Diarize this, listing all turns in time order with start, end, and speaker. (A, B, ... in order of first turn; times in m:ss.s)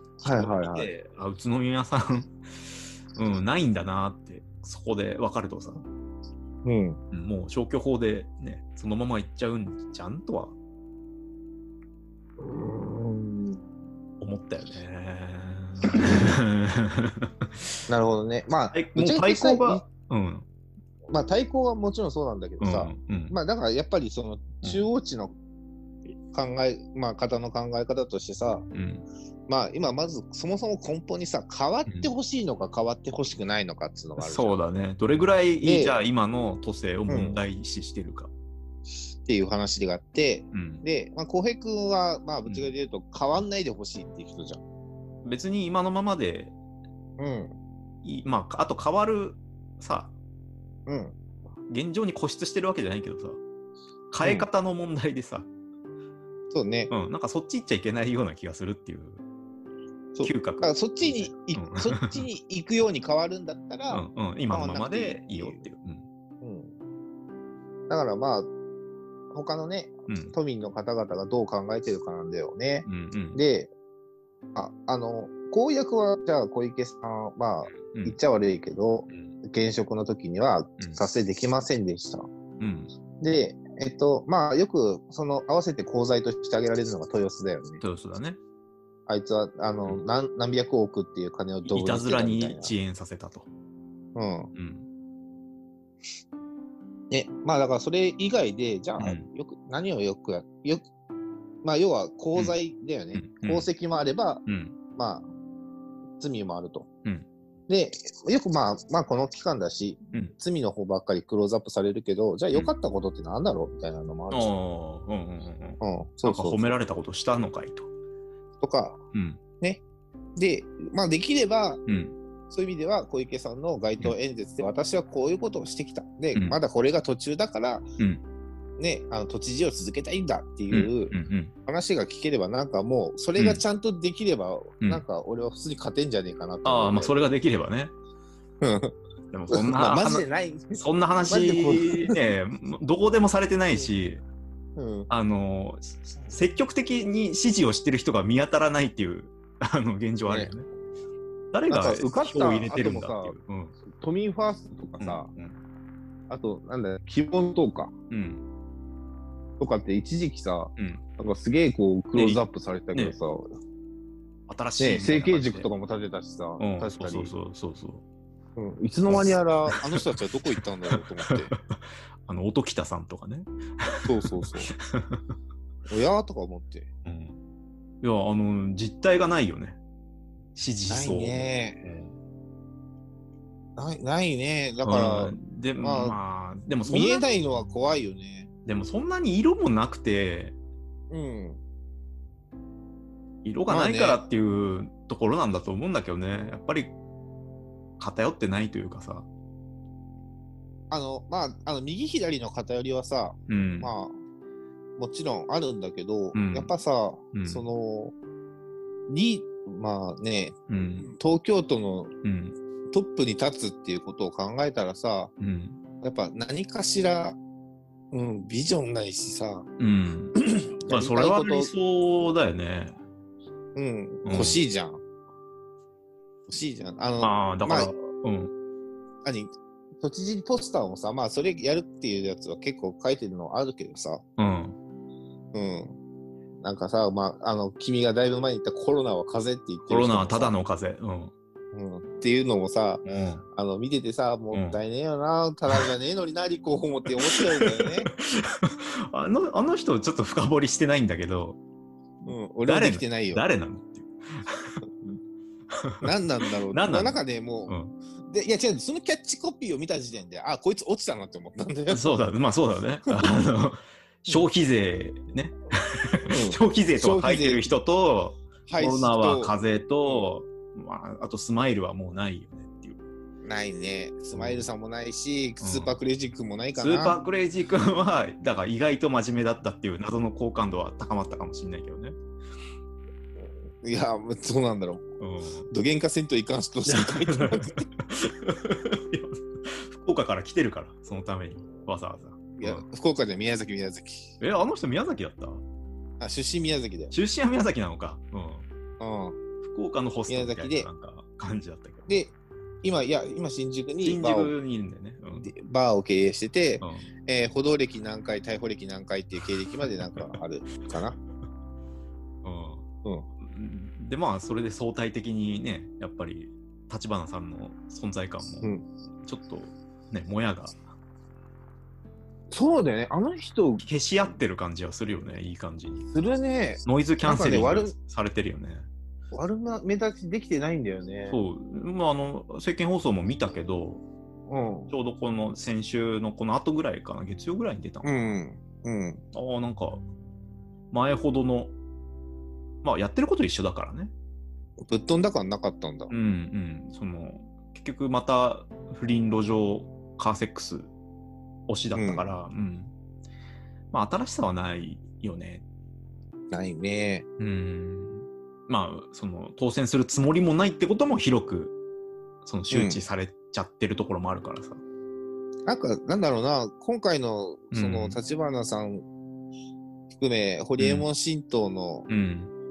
0:00.2-0:00.9 A
0:00.2-0:05.8 B
0:06.6-0:07.0 A
0:07.1-0:10.5 B
0:12.4-0:13.6 A
0:14.2-0:17.7 B
0:17.9-0:19.8 A
0:18.7-0:20.4 B
0:21.1-0:25.3 A
0:22.6-0:23.3 B
0:26.3-0:28.6 A
0:28.7-0:29.0 B
0:29.5-0:34.6 A
0:34.2-0:38.3 B
0:35.6-0:36.0 A
0:37.1-0:37.4 A
0:39.2-0:44.6 A
0:40.5-0:40.8 B
0:42.4-0:42.7 B
0:45.2-0:46.5 B
0:47.2-0:47.5 A
0:48.0-0:50.1 B
0:50.9-0:51.2 A
0:51.7-0:53.4 B
0:54.1-0:55.5 B
0:54.2-0:54.5 A
0:56.5-0:56.9 A
0:56.9-0:59.2 B
1:00.1-1:05.6 A
1:00.2-1:02.3 B
1:03.9-1:06.0 B
1:06.4-1:06.7 A
1:07.9-1:08.5 A
1:09.3-1:13.7 A
1:10.1-1:10.3 B
1:12.8-1:13.4 B
1:14.5-1:22.3 A
1:17.7-1:18.2 B
1:22.6-1:22.9 B
1:23.2-1:27.8 A
1:27.8-1:28.4 B
1:29.1-1:32.7 A
1:31.6-1:33.5 B
1:34.1-1:34.5 A
1:34.5-1:34.9 B
1:37.1-1:40.8 A
1:39.0-1:39.2 B
1:41.6-1:44.4 A
1:43.1-1:43.7 B
1:44.4-1:44.8 B
1:45.0-1:45.3 A
1:46.2-1:46.9 A
1:47.7-1:54.5 A
1:54.3-1:57.9 B
1:55.8-1:56.7 A
1:58.6-1:59.0 A
1:59.1-1:59.4 B
2:00.4-2:01.8 A
2:01.8-2:02.1 B
2:02.5-2:07.9 A
2:08.8-2:11.1 A
2:10.7-2:11.5 B
2:11.6-2:17.2 A
2:16.6-2:17.9 B
2:18.6-2:18.9 A
2:19.3-2:24.2 B
2:19.5-2:22.2 A
2:24.8-2:25.1 A
2:25.1-2:30.6 B
2:31.5-2:33.7 B
2:31.7-2:33.4 A
2:33.9-2:35.3 A
2:35.0-2:35.6 B
2:36.3-2:37.9 A
2:38.1-2:38.4 B
2:39.6-2:43.5 A
2:40.8-2:41.0 B
2:42.1-2:43.2 B
2:44.5-2:45.7 B
2:44.8-2:47.3 A
2:46.6-2:48.0 B
2:48.6-2:51.5 A
2:49.1-2:55.2 B
2:54.0-2:54.7 A
2:55.9-2:56.9 A
2:57.0-2:57.4 B
2:58.0-2:59.8 B
3:00.5-3:02.2 B
3:00.9-3:01.8 A
3:03.8-3:06.2 A
3:04.8-3:07.2 B
3:06.8-3:08.5 A
3:08.6-3:10.5 B
3:11.1-3:11.6 A
3:13.4-3:16.9 B
3:13.7-3:14.2 A
3:18.0-3:19.3 B
3:20.9-3:24.2 A
3:23.5-3:23.9 B
3:25.0-3:28.1 A
3:26.3-3:26.7 B
3:27.3-3:27.6 B
3:29.1-3:32.1 A
3:30.7-3:31.1 B
3:32.2-3:32.6 B
3:32.9-3:35.3 A
3:35.4-3:35.8 B
3:36.0-3:37.4 A
3:38.1-3:39.7 A
3:39.8-3:43.0 B
3:40.8-3:41.7 A
3:43.7-3:45.0 A
3:44.2-3:44.6 B
3:46.5-3:47.9 A
3:47.2-3:48.5 B
3:49.2-3:49.5 A
3:50.0-3:54.2 A
3:54.4-3:54.8 B
3:55.5-3:55.9 A
3:56.6-4:00.5 A
3:59.9-4:01.3 B
4:01.7-4:03.0 A
4:03.0-4:03.4 B
4:03.5-4:08.1 A
4:04.5-4:04.8 B
4:07.3-4:11.6 B
4:12.2-4:13.4 A
4:12.6-4:15.1 B
4:15.7-4:16.1 B
4:16.0-4:17.7 A
4:16.7-4:17.9 B
4:18.3-4:22.1 A
4:21.9-4:33.0 B
4:26.2-4:27.7 A
4:28.7-4:29.5 A
4:33.4-4:37.2 A
4:34.3-4:34.7 B
4:35.6-4:36.0 B
4:36.8-4:42.2 B
4:43.8-4:45.0 A
4:45.2-4:45.7 B
4:45.7-4:47.9 A
4:46.8-4:52.8 B
4:52.6-4:54.3 A
4:54.4-4:55.6 B
4:56.2-4:57.1 A
4:57.1-4:58.7 B
4:59.0-4:59.4 A
4:59.6-5:02.2 B
5:00.3-5:00.9 A
5:02.1-5:04.5 A
5:04.0-5:05.5 B
5:05.4-5:11.2 A
5:06.8-5:07.1 B
5:09.8-5:10.4 B
5:12.4-5:12.8 B
5:13.4-5:18.7 B
5:19.2-5:20.8 B
5:22.5-5:23.8 A
5:23.8-5:26.1 B
5:26.1-5:27.9 A
5:26.8-5:28.9 B
5:29.3-5:31.4 A
5:31.3-5:34.0 B
5:34.5-5:34.9 A
5:34.9-5:38.1 B
5:38.0-5:39.2 A
5:39.3-5:40.0 B
5:40.9-5:41.7 B
5:42.8-5:44.1 B
5:44.9-5:46.1 A
5:46.1-5:50.9 B
5:51.7-5:52.9 B
5:51.9-5:52.3 A
5:53.9-5:55.6 B
5:56.5-5:57.2 A
5:57.4-6:01.7 B
6:02.4-6:04.8 B
6:02.7-6:03.0 A
6:05.6-6:09.0 A
6:07.7-6:08.2 B
6:10.1-6:12.1 A
6:10.8-6:11.1 B
6:12.1-6:12.5 B